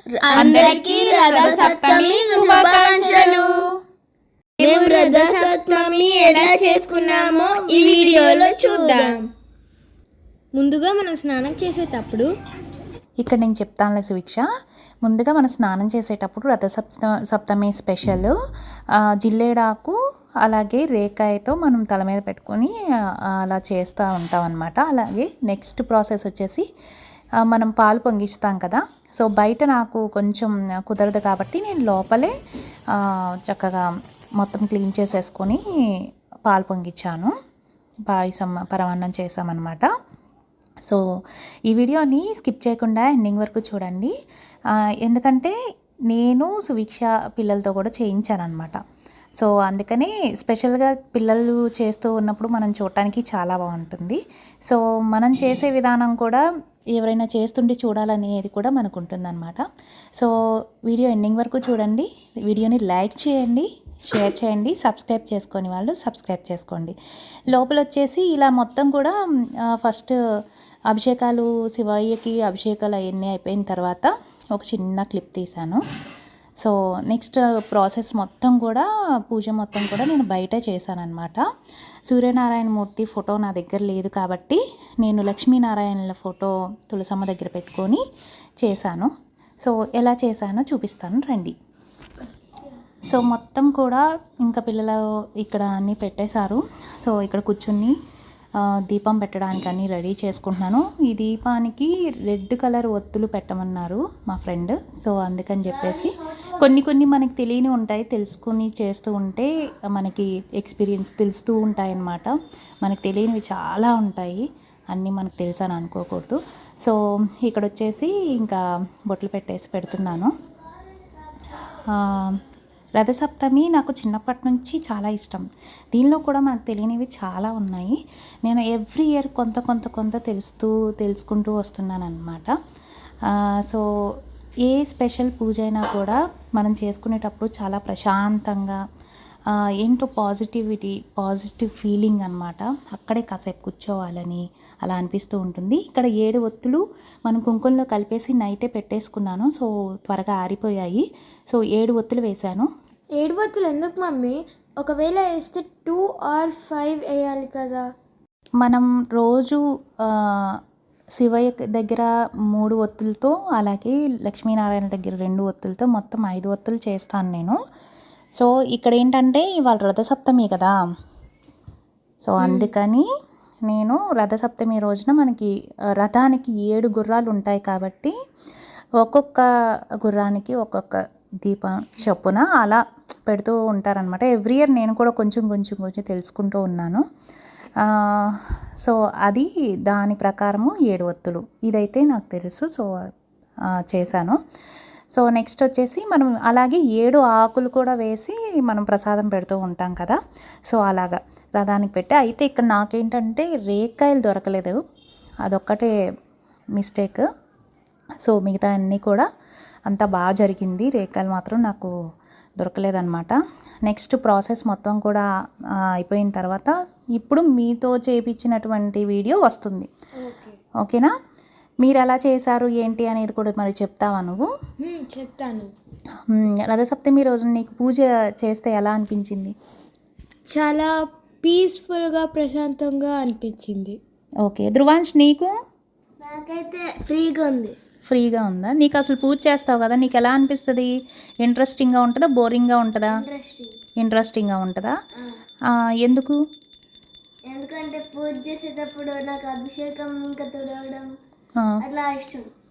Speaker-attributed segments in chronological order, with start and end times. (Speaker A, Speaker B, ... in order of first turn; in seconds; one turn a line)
Speaker A: 0.2-3.5
Speaker B: 0.2-3.7
Speaker C: 0.4-0.7
Speaker B: 4.6-9.2
Speaker A: 4.6-9.2
Speaker B: 10.6-12.3
Speaker C: 13.2-14.5
Speaker C: 15.0-18.4
Speaker C: 19.2-22.7
Speaker C: 23.4-26.6
Speaker C: 27.5-32.3
Speaker C: 33.0-33.9
Speaker C: 34.4-35.6
Speaker C: 36.5-37.3
Speaker C: 38.1-39.9
Speaker C: 41.7-44.1
Speaker C: 45.0-45.5
Speaker C: 46.1-48.8
Speaker C: 49.4-56.4
Speaker C: 57.0-59.6
Speaker C: 60.9-67.0
Speaker C: 67.5-69.1
Speaker C: 69.7-70.2
Speaker C: 70.9-75.8
Speaker C: 76.6-81.4
Speaker C: 82.1-88.0
Speaker C: 88.6-89.1
Speaker C: 89.6-91.5
Speaker C: 93.1-98.0
Speaker C: 98.6-120.3
Speaker C: 121.7-122.4
Speaker C: 123.0-132.5
Speaker C: 133.3-133.8
Speaker C: 134.7-138.8
Speaker C: 139.8-152.7
Speaker B: 153.2-157.8
Speaker C: 158.6-160.6
Speaker C: 161.2-167.6
Speaker C: 168.4-170.7
Speaker C: 172.2-173.1
Speaker B: 172.4-172.7
Speaker C: 173.7-178.1
Speaker C: 179.0-179.4
Speaker C: 180.0-187.0
Speaker C: 187.8-192.9
Speaker C: 193.8-194.4
Speaker C: 195.1-200.2
Speaker C: 200.7-204.8
Speaker C: 205.4-205.9
Speaker C: 206.8-207.2
Speaker C: 208.2-209.3
Speaker C: 209.9-211.9
Speaker C: 212.6-213.3
Speaker C: 213.9-215.2
Speaker C: 216.0-219.9
Speaker B: 220.2-220.6
Speaker C: 220.8-221.1
Speaker C: 221.8-224.5
Speaker B: 224.8-225.7
Speaker C: 226.3-229.5
Speaker B: 230.5-234.0
Speaker C: 234.4-235.5
Speaker A: 236.3-237.7
Speaker C: 238.1-240.9
Speaker C: 241.4-243.2
Speaker A: 243.3-243.7
Speaker C: 244.0-244.9
Speaker C: 246.0-246.4
Speaker A: 247.5-251.1
Speaker A: 251.9-252.4